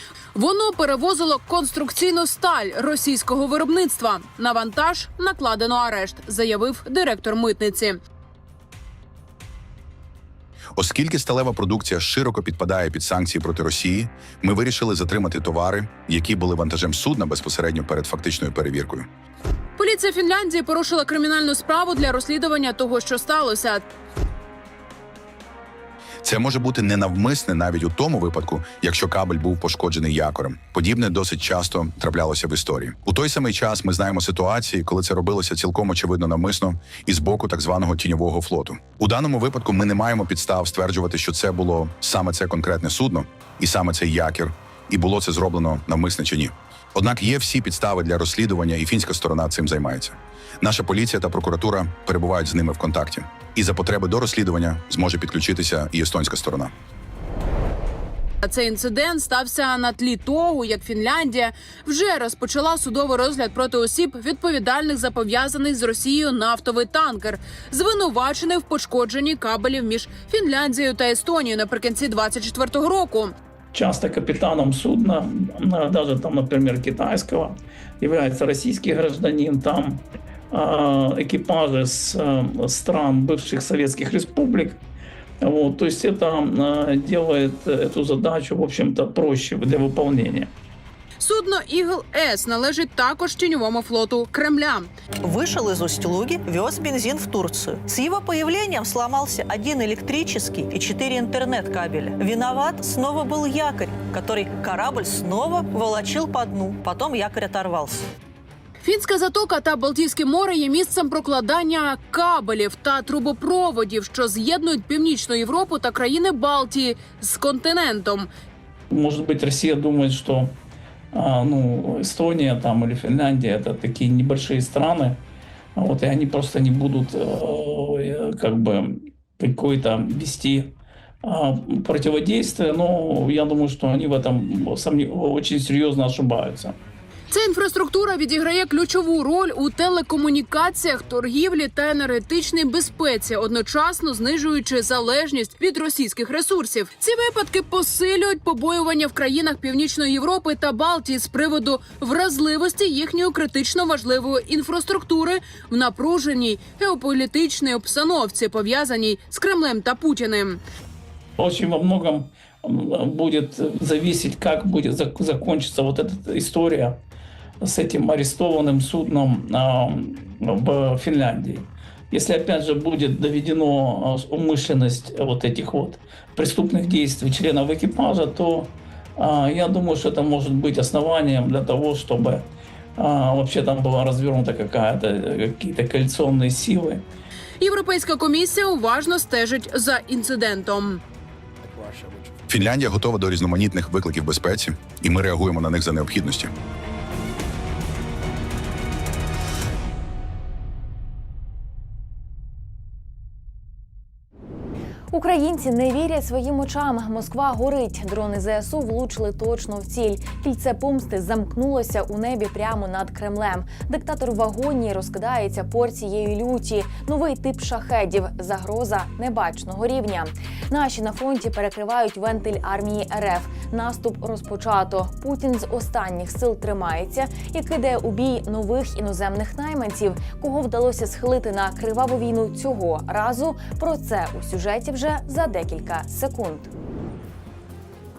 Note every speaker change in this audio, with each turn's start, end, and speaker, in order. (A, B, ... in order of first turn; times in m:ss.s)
0:00.3-0:08.0 A
0:10.8-0:19.1 B
0:19.8-0:23.8 A
0:26.2-0:56.7 B
0:58.4-1:13.3 A
1:13.7-1:24.8 C
1:25.4-1:30.5 C
1:31.2-1:34.9 A
1:35.2-1:48.1 D
1:48.8-1:58.3 A
1:58.9-2:00.6 C
2:01.1-2:05.2 C
2:05.8-2:16.8 C
2:17.3-2:40.6 A
2:41.4-2:47.0 C
2:47.6-3:07.0 C
3:07.6-3:11.0 A
3:12.5-3:16.5 B
3:25.1-3:56.7 E